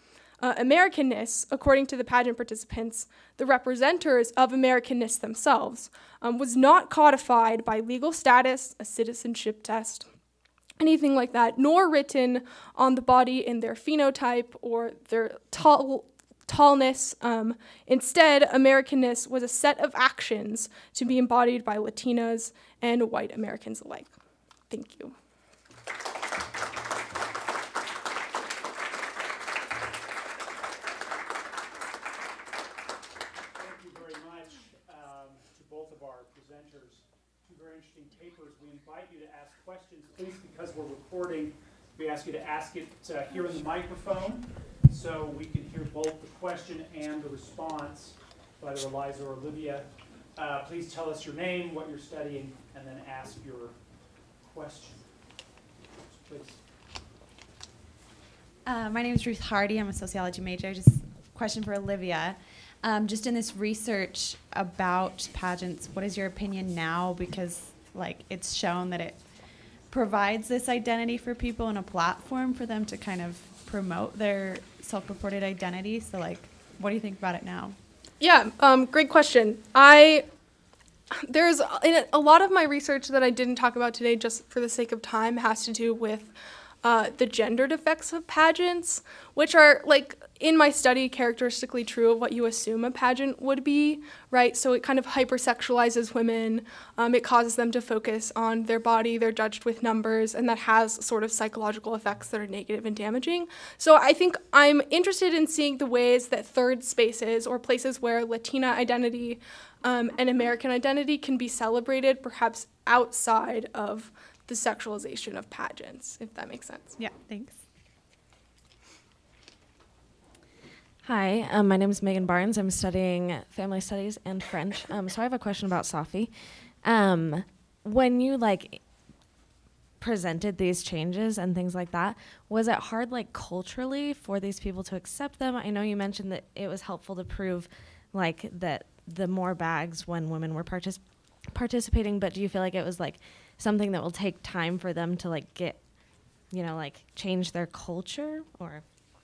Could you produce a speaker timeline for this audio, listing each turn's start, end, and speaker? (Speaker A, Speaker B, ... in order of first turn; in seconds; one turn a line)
Speaker A: 0.4-10.1
Speaker A: 10.8-24.1
Speaker A: 24.7-25.1
Speaker B: 33.5-53.7
Speaker B: 54.4-55.1
Speaker B: 56.1-56.6
Speaker C: 58.6-69.2
Speaker C: 69.9-77.8
Speaker A: 78.2-80.2
Speaker A: 81.1-86.3
Speaker A: 86.8-117.0
Speaker C: 117.0-117.6
Speaker D: 121.0-128.8
Speaker D: 130.0-145.8
Speaker D: 146.5-148.8